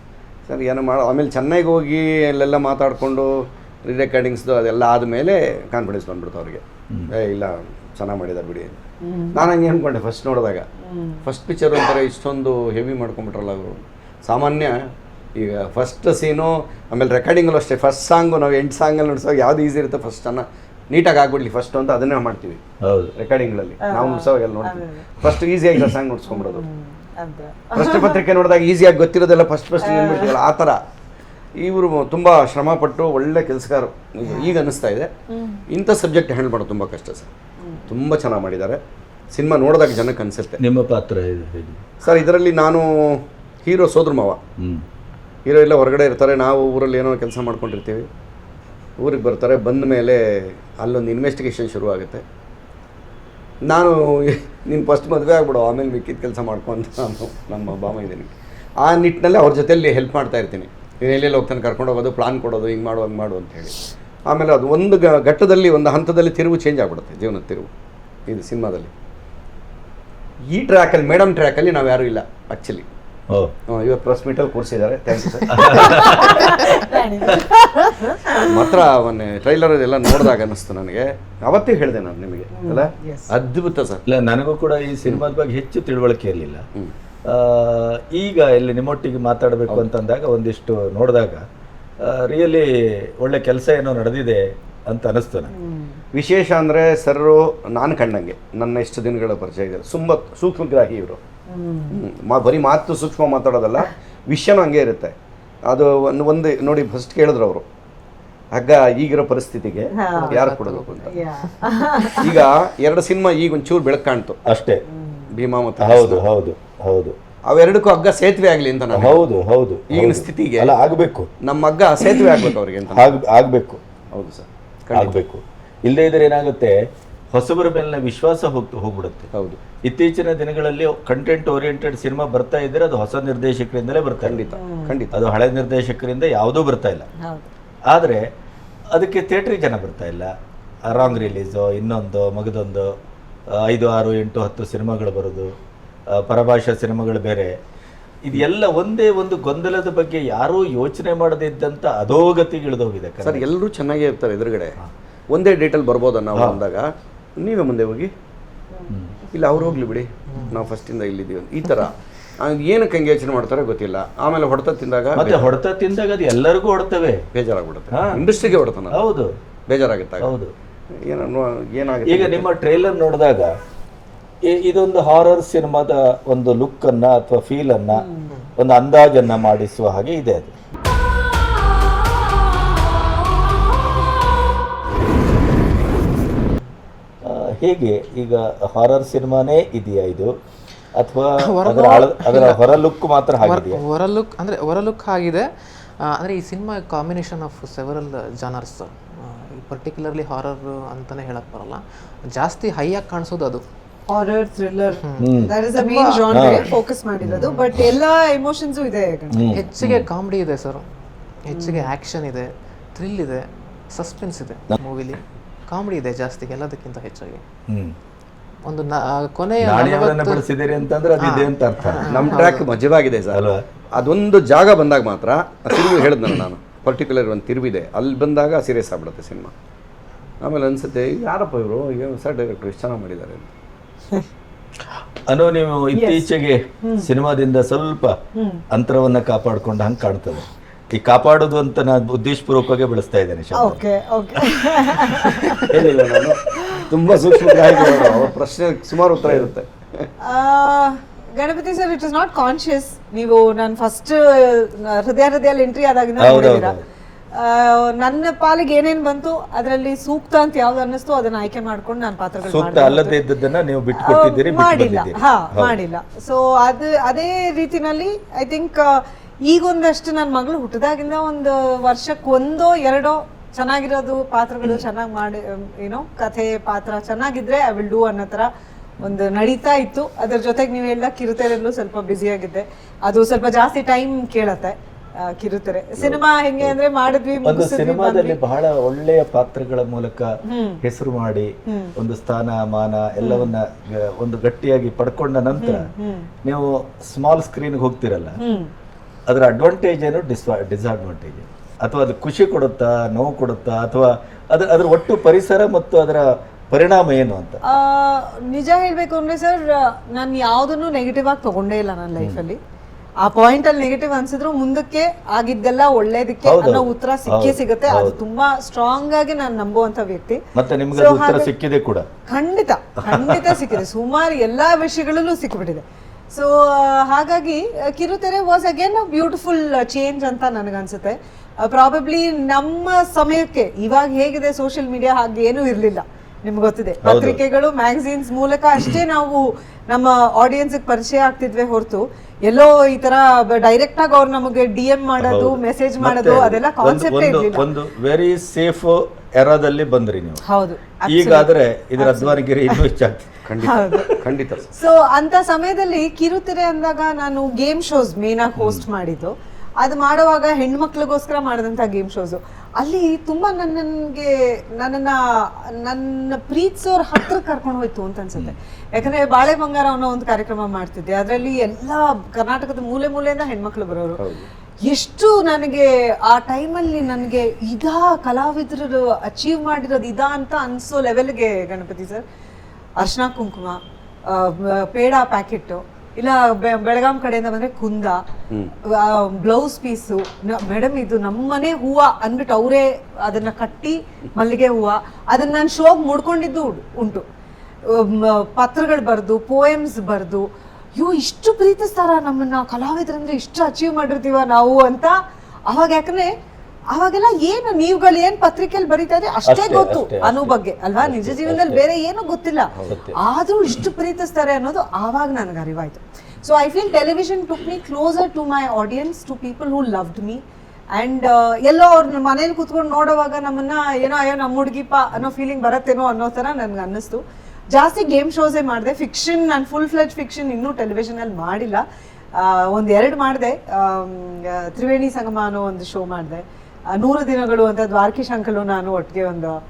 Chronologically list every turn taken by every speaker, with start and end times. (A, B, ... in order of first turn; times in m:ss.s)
0:00.5-0:08.8 A
0:09.0-0:09.4 B
0:09.3-0:10.7 A
0:10.8-0:11.2 B
0:11.2-0:22.6 A
0:22.8-0:23.1 C
0:23.2-0:26.6 A
0:23.8-0:25.0 B
0:26.3-0:28.2 B
0:27.8-0:30.8 A
0:29.8-0:30.3 B
0:31.6-0:35.1 A
0:34.2-0:34.5 B
0:35.3-0:35.6 B
0:35.7-0:37.3 A
0:37.9-0:38.8 A
0:39.3-0:40.6 A
0:40.6-0:41.8 C
0:42.0-0:44.4 A
0:44.6-0:44.8 C
0:45.4-0:48.1 A
0:49.0-0:52.2 A
0:53.6-1:07.7 A
1:08.3-1:08.9 A
1:10.5-1:12.9 A
1:13.7-1:17.4 A
1:15.5-1:16.5 C
1:15.5-1:18.8 B
1:18.3-1:24.0 A
1:22.5-1:23.3 B
1:24.0-1:26.6 C
1:27.3-1:31.4 C
1:32.0-1:35.5 C
1:35.5-1:36.0 B
1:36.1-1:41.2 A
1:41.5-1:42.0 B
1:41.9-1:45.1 A
1:45.7-1:47.6 A
1:48.5-1:51.2 A
1:50.0-1:50.4 B
1:50.2-1:51.6 D
1:51.1-1:52.3 B
1:52.2-1:54.4 A
1:54.4-1:54.8 C
1:54.9-1:55.3 B
1:55.3-1:56.2 A
1:55.8-1:57.1 C
1:57.5-1:59.2 A
1:58.9-2:01.3 C
1:59.9-2:00.7 A
2:01.4-2:03.1 A
2:02.9-2:03.8 C
2:04.1-2:05.2 A
2:04.9-2:06.8 C
2:07.3-2:09.3 C
2:09.3-2:09.6 A
2:09.8-2:14.4 C
2:14.2-2:15.2 A
2:14.6-2:15.0 B
2:15.1-2:17.1 C
2:17.2-2:17.5 B
2:17.9-2:18.2 C
2:18.9-2:20.3 C
2:20.8-2:22.9 C
2:21.0-2:21.3 B
2:23.5-2:25.5 C
2:26.1-2:27.5 C
2:28.2-2:33.5 C
2:33.2-2:34.8 A
2:35.3-2:38.1 A
2:36.3-2:36.6 C
2:38.9-2:39.1 C
2:39.3-2:45.5 A
2:40.3-2:40.6 D
2:45.1-2:47.2 C
2:47.3-2:49.0 A
2:47.9-2:48.3 C
2:48.9-2:49.3 C
2:49.7-2:50.3 A
2:50.2-2:50.5 C
2:51.0-2:52.5 A
2:52.1-2:53.5 C
2:54.4-2:58.0 C
2:57.9-2:58.3 B
2:58.6-3:00.5 C
3:07.2-3:10.3 C
3:10.9-3:13.8 C
3:11.4-3:12.8 D
3:13.4-3:15.5 D
3:16.0-3:23.6 D
3:24.1-3:29.5 B
3:25.0-3:26.6 D
3:25.2-3:25.5 C
3:26.3-3:26.6 C
3:27.2-3:27.5 C
3:27.4-3:27.8 D
3:29.3-3:30.1 C
3:29.5-3:30.8 D
3:31.4-3:37.4 D
3:31.5-3:31.9 B
3:37.7-3:37.9 C
3:38.6-3:40.4 D
3:39.6-3:42.0 C
3:41.2-3:42.7 D
3:42.1-3:49.5 A
3:43.3-3:43.6 C
3:50.4-3:53.5 A
3:55.3-3:58.2 C
3:55.9-3:56.3 B
3:56.8-3:57.1 B
3:58.3-3:58.6 B
3:58.7-4:03.8 C
4:03.5-4:05.7 B
4:04.4-4:05.8 C
4:05.6-4:10.1 A
4:06.6-4:06.9 B
4:07.7-4:08.3 B
4:09.2-4:09.5 C
4:10.2-4:16.8 B
4:16.2-4:16.8 C
4:17.3-4:23.2 B
4:22.5-4:25.7 C
4:23.9-4:38.5 B
4:39.0-4:48.4 B
4:46.0-4:46.2 A
4:47.4-4:50.3 C
4:50.4-4:50.8 B
4:50.8-4:55.9 C
4:51.6-4:51.9 B
4:53.2-4:53.5 B
4:55.5-4:56.3 B
4:56.4-4:58.4 C
4:58.4-4:58.7 B
4:59.3-5:07.6 C
5:07.6-5:12.6 B
5:13.2-5:20.4 B
5:16.4-5:18.2 C
5:20.6-5:22.1 C
5:20.9-5:21.5 B
5:22.3-5:47.6 B
5:23.1-5:23.7 C
5:37.0-5:37.4 C
5:45.2-5:50.4 C
5:50.4-5:52.8 B
5:51.1-5:53.3 C
5:53.4-5:54.7 A
5:53.6-5:54.2 B
5:54.7-6:14.2 B
5:58.6-5:58.8 C
6:14.2-6:14.5 A
6:14.8-6:22.2 B
6:23.0-6:28.2 B
6:28.9-6:37.2 B
6:37.8-6:40.4 B
6:41.0-6:45.2 B
6:45.7-6:46.3 B
6:46.9-7:00.4 B
6:49.4-6:51.8 C
6:52.8-6:53.2 C
7:00.9-7:19.6 B